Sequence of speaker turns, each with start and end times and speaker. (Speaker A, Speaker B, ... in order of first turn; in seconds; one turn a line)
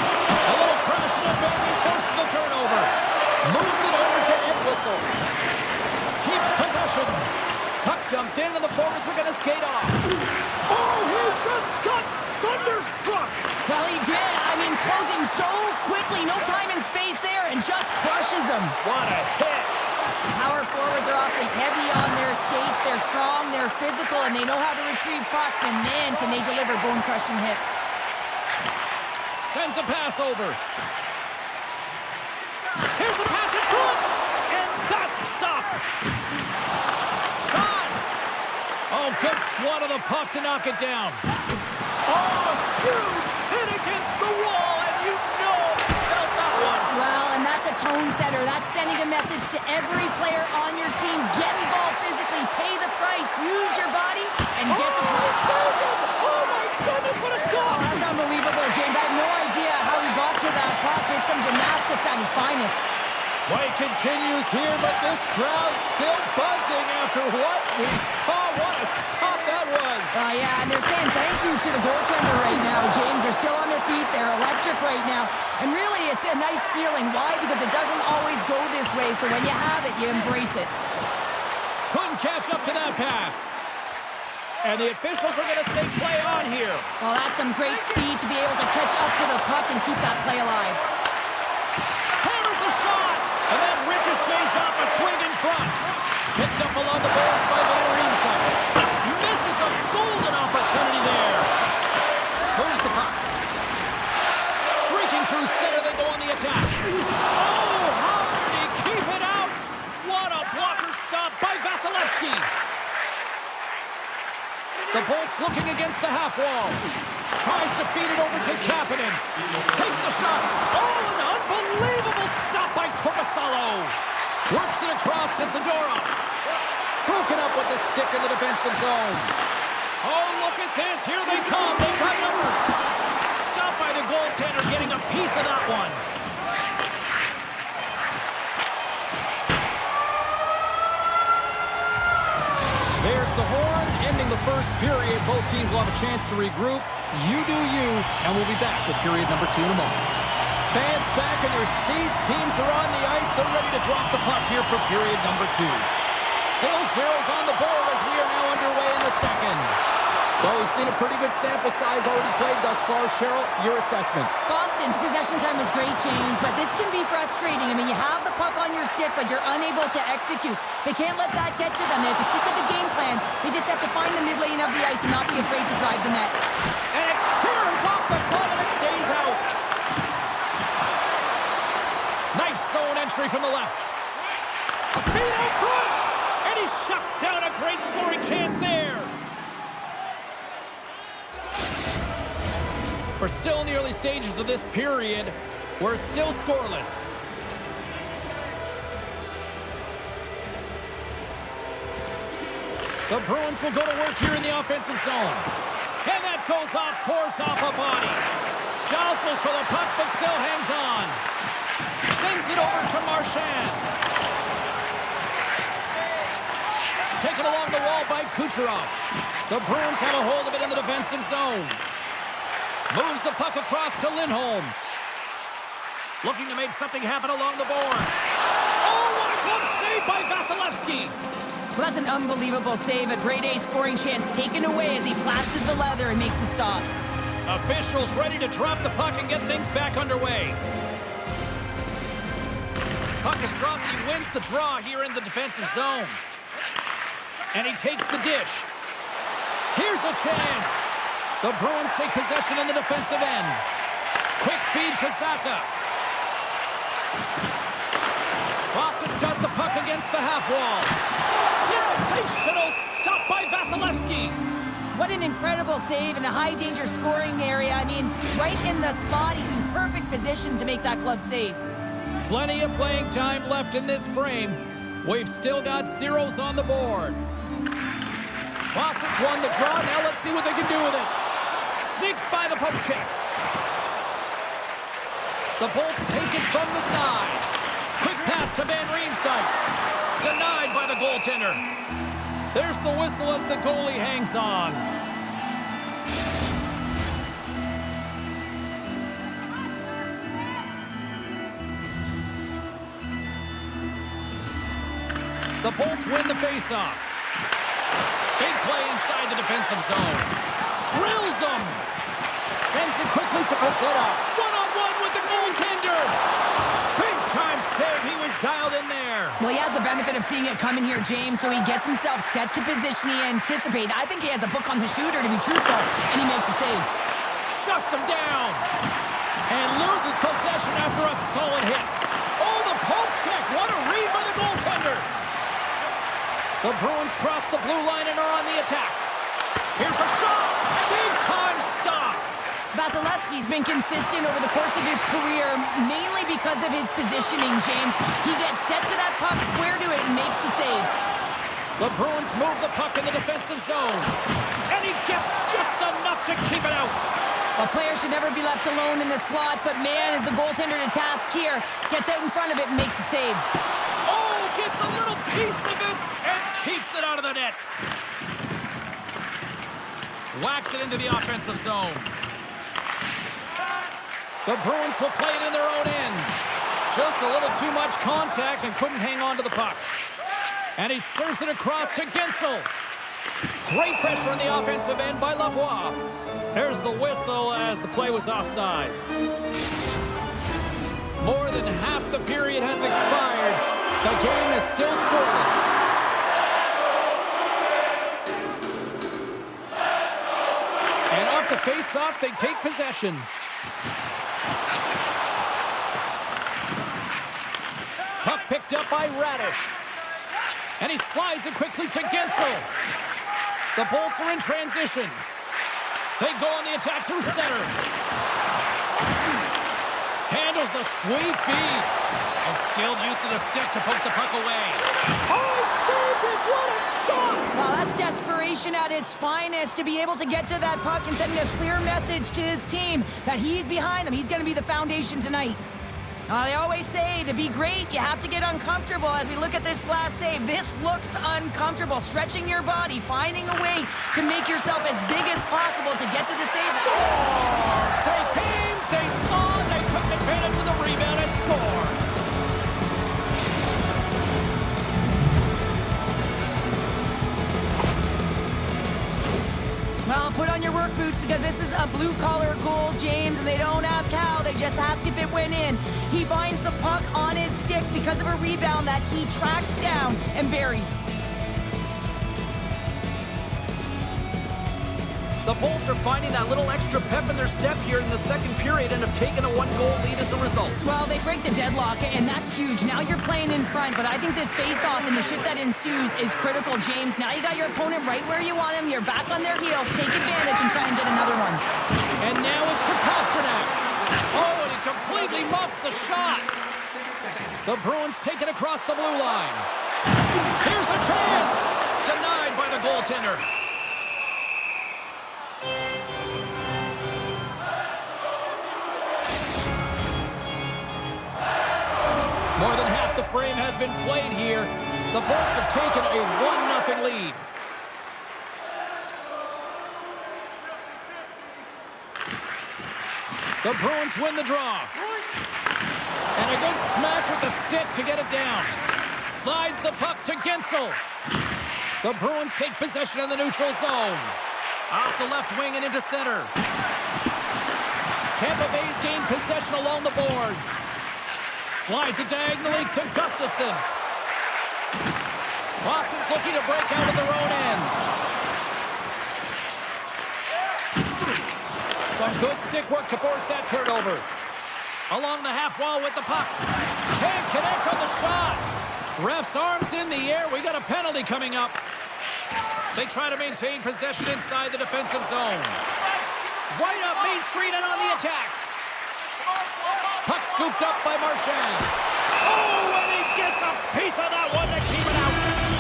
Speaker A: 0.4-5.1
Speaker A: 6.2-7.3
Speaker A: 7.8-10.0
Speaker A: 10.7-13.5
Speaker B: 13.7-18.8
Speaker A: 18.8-19.7
Speaker B: 20.3-27.8
Speaker A: 29.4-30.6
Speaker A: 33.0-35.8
Speaker A: 37.4-38.0
Speaker A: 38.9-41.2
Speaker A: 42.1-46.9
Speaker B: 46.9-55.4
Speaker A: 54.7-58.0
Speaker B: 57.4-62.8
Speaker A: 63.5-70.2
Speaker B: 70.1-80.7
Speaker A: 81.9-83.5
Speaker A: 84.6-86.9
Speaker B: 87.0-90.8
Speaker A: 92.2-95.8
Speaker A: 96.3-101.5
Speaker A: 102.6-103.3
Speaker A: 104.7-112.5
Speaker A: 114.9-124.0
Speaker A: 124.5-126.1
Speaker A: 127.0-129.3
Speaker A: 130.0-132.7
Speaker A: 133.3-136.0
Speaker A: 143.0-150.1
Speaker A: 150.7-155.9
Speaker A: 156.4-159.8
Speaker A: 160.4-164.3
Speaker B: 164.5-176.4
Speaker A: 176.9-179.4
Speaker A: 182.3-183.9
Speaker A: 184.9-189.1
Speaker A: 193.2-197.0
Speaker A: 203.1-205.5
Speaker A: 206.0-208.2
Speaker A: 208.8-211.2
Speaker A: 212.1-213.9
Speaker A: 217.2-218.9
Speaker A: 219.5-221.8
Speaker A: 222.9-224.8
Speaker A: 226.2-231.2
Speaker B: 231.8-236.9
Speaker A: 237.5-240.6
Speaker A: 243.2-246.2
Speaker A: 247.5-248.7
Speaker A: 249.7-250.9
Speaker A: 251.4-253.6
Speaker A: 254.4-255.7
Speaker A: 258.7-264.4
Speaker B: 264.9-271.6
Speaker A: 272.2-277.2
Speaker A: 278.7-281.1
Speaker A: 281.8-283.1
Speaker A: 285.6-289.5
Speaker A: 290.2-291.6
Speaker A: 292.5-294.9
Speaker A: 305.6-307.1
Speaker A: 308.4-311.9
Speaker A: 312.6-316.2
Speaker A: 316.9-319.4
Speaker B: 319.4-326.9
Speaker A: 327.5-328.7
Speaker A: 329.5-335.1
Speaker A: 336.6-339.1
Speaker A: 339.8-342.3
Speaker B: 342.7-350.9
Speaker A: 351.8-354.1
Speaker A: 354.7-357.0
Speaker B: 357.6-363.5
Speaker A: 364.1-367.6
Speaker A: 370.3-372.1
Speaker A: 374.4-376.4
Speaker A: 376.9-379.9
Speaker A: 380.8-382.7
Speaker A: 383.6-386.0
Speaker A: 386.5-389.0
Speaker A: 391.2-395.6
Speaker A: 401.1-403.3
Speaker A: 408.2-409.7
Speaker A: 410.8-412.7
Speaker A: 413.8-415.2
Speaker A: 416.2-417.8
Speaker A: 420.3-421.9
Speaker A: 422.4-427.5
Speaker B: 427.5-435.6
Speaker B: 436.3-446.9
Speaker A: 446.8-452.0
Speaker B: 460.1-471.0
Speaker A: 475.4-480.8
Speaker B: 480.8-491.6
Speaker A: 492.2-493.8
Speaker A: 494.3-496.5
Speaker A: 497.6-499.7
Speaker A: 500.6-503.4
Speaker A: 512.6-517.4
Speaker A: 523.6-524.9
Speaker A: 526.4-531.0
Speaker A: 532.0-534.4
Speaker A: 534.9-536.5
Speaker A: 538.4-540.8
Speaker A: 541.6-543.9
Speaker A: 545.8-548.0
Speaker A: 552.1-554.3
Speaker A: 555.1-556.6
Speaker A: 557.1-558.6
Speaker A: 559.2-561.8
Speaker A: 562.9-565.8
Speaker A: 566.6-568.6
Speaker A: 570.2-575.4